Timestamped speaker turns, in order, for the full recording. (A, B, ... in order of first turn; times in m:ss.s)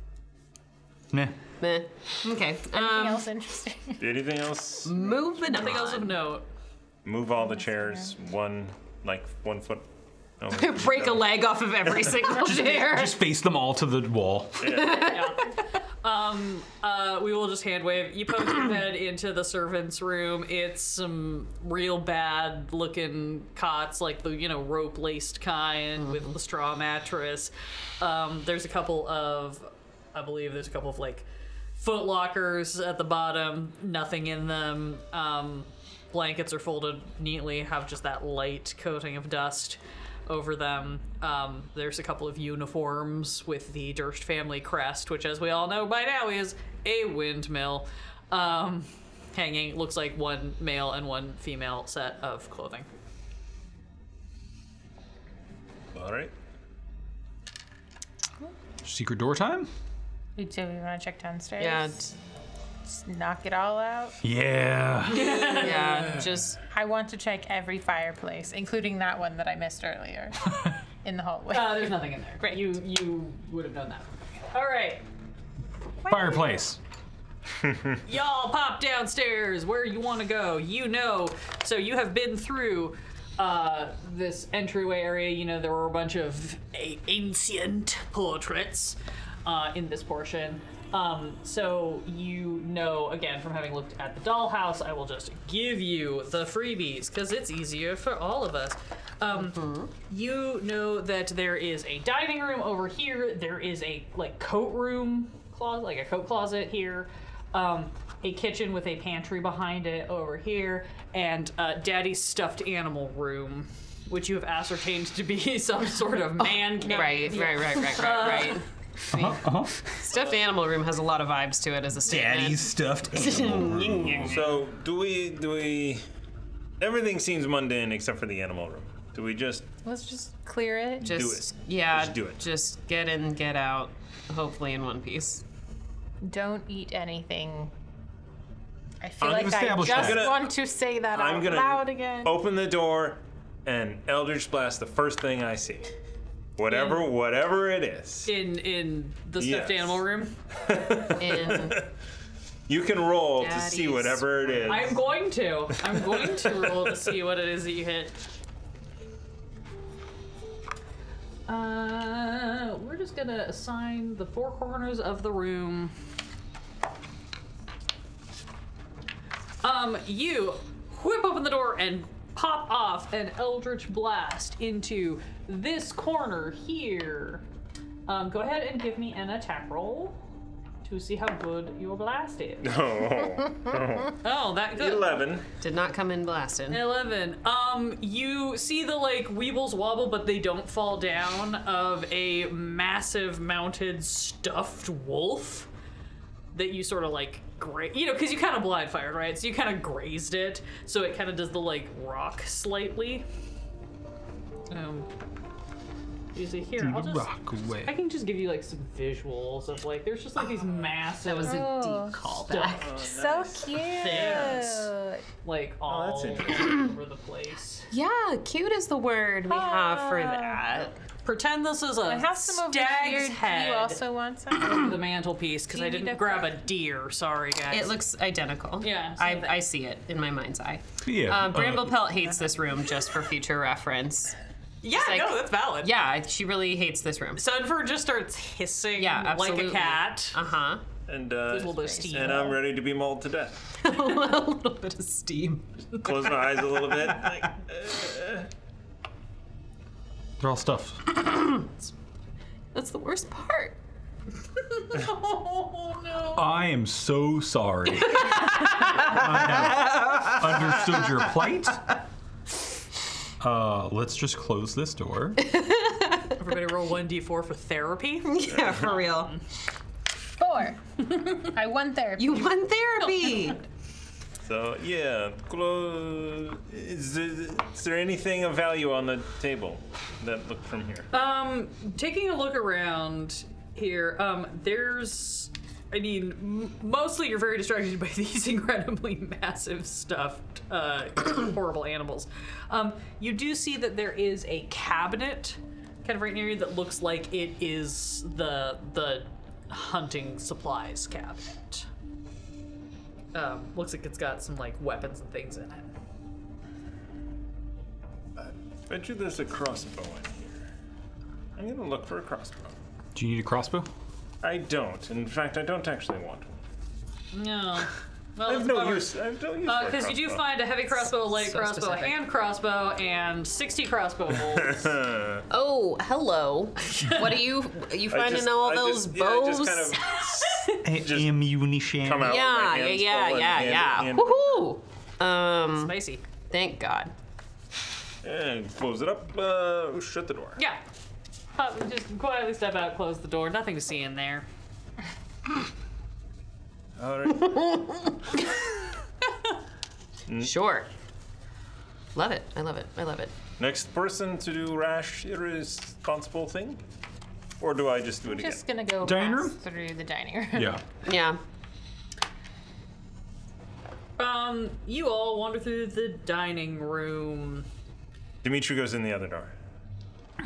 0:01.1-0:01.4 A
0:01.6-0:03.2 B
0:02.7-0:04.0 C
0:04.0-0:05.6 D
0:04.8-0:06.2 B
0:05.5-0:06.5 E
0:07.0-0:09.9 D
0:10.4-0:12.2 D
0:10.5-0:13.2 B
0:12.4-0:14.9 A
0:14.6-0:15.2 D
0:14.6-0:15.6 B
0:15.0-0:52.9 E
0:55.9-0:56.3 D
0:58.8-0:59.7 A
1:00.4-1:02.1 C
1:01.6-1:02.1 B
1:02.9-1:04.2 C
1:04.2-1:05.4 A
1:05.1-1:06.2 E
1:05.2-1:06.6 B
1:06.7-1:12.7 C
1:11.5-1:15.0 E
1:16.0-1:16.6 C
1:16.1-1:16.8 A
1:18.0-1:58.6 E
1:39.4-1:39.9 B
1:56.8-2:04.4 B
1:57.0-1:57.6 C
1:59.1-1:59.9 A
2:02.0-2:04.5 A
2:04.2-2:06.0 D
2:06.8-2:09.7 D
2:09.8-2:11.1 C
2:11.0-2:12.4 D
2:11.0-2:15.4 B
2:16.2-2:17.7 C
2:19.0-2:22.4 C
2:19.2-2:20.5 D
2:19.2-2:20.3 A
2:21.1-2:25.9 D
2:26.6-2:28.3 D
2:26.7-2:27.1 E
2:28.3-2:31.2 E
2:29.4-2:30.0 D
2:30.6-2:31.9 D
2:31.2-2:31.8 B
2:32.7-2:35.0 D
2:33.4-2:34.9 B
2:34.7-2:38.2 E
2:36.0-2:36.9 D
2:41.5-2:45.9 E
2:49.6-2:57.4 E
2:58.1-3:00.2 E
3:00.8-3:02.8 E
3:02.6-3:04.2 D
3:04.2-3:05.2 E
3:04.7-3:05.4 D
3:05.6-3:06.9 B
3:06.7-3:15.7 E
3:16.5-3:23.2 E
3:24.7-3:25.1 E
3:26.3-3:27.3 E
3:26.8-3:27.9 A
3:27.8-3:31.7 E
3:31.2-3:33.0 B
3:31.4-3:32.3 C
3:32.3-3:32.9 E
3:32.7-3:34.6 D
3:33.0-3:35.3 C
3:34.0-3:34.9 E
3:35.4-3:37.9 E
3:35.9-3:36.8 D
3:37.9-3:40.9 B
3:39.5-3:40.7 C
3:41.2-3:44.0 E
3:42.0-3:45.0 C
3:44.6-3:48.0 E
3:45.7-3:46.6 C
3:47.7-3:54.4 B
3:48.8-3:49.6 E
3:51.0-3:52.1 A
3:54.8-3:55.9 E
3:54.9-3:57.4 B
3:57.4-4:00.4 E
3:59.0-4:00.8 B
4:01.1-4:03.8 D
4:01.5-4:02.6 E
4:01.7-4:02.6 C
4:03.8-4:06.8 B
4:06.0-4:08.5 D
4:10.4-4:11.2 A
4:11.2-4:11.7 B
4:12.7-4:13.8 B
4:14.8-4:16.4 E
4:16.3-4:21.9 A
4:18.2-4:21.1 B
4:23.4-4:25.5 A
4:25.4-4:26.4 B
4:26.4-4:29.4 E
4:28.2-4:29.4 B
4:30.4-4:32.6 C
4:32.2-4:33.6 B
4:34.4-4:41.1 D
4:41.1-5:01.9 E
5:03.3-5:05.9 E
5:08.4-5:10.6 D
5:11.6-5:12.8 D
5:13.2-5:13.9 A
5:14.4-5:16.6 D
5:17.3-5:19.1 E
5:18.5-5:20.4 D
5:19.6-5:24.9 E
5:21.1-5:22.2 B
5:24.5-5:25.4 D
5:25.5-5:30.2 B
5:26.8-5:27.4 E
5:28.1-5:31.3 D
5:30.1-5:30.8 E
5:30.8-5:32.4 A
5:32.0-5:34.7 D
5:32.2-5:36.0 B
5:35.8-5:36.2 E
5:36.5-5:37.1 B
5:38.2-5:40.6 D
5:40.6-5:40.8 E
5:41.6-5:44.5 E
5:47.0-5:47.8 D
5:50.3-5:50.5 D
5:50.4-5:50.9 B
5:52.2-5:53.3 B
5:53.6-5:56.8 D
5:57.6-5:58.6 D
5:58.2-6:00.8 C
5:59.0-5:59.6 A
6:00.5-6:00.8 A
6:01.0-6:01.4 B
6:04.2-6:07.7 E
6:08.4-6:09.5 D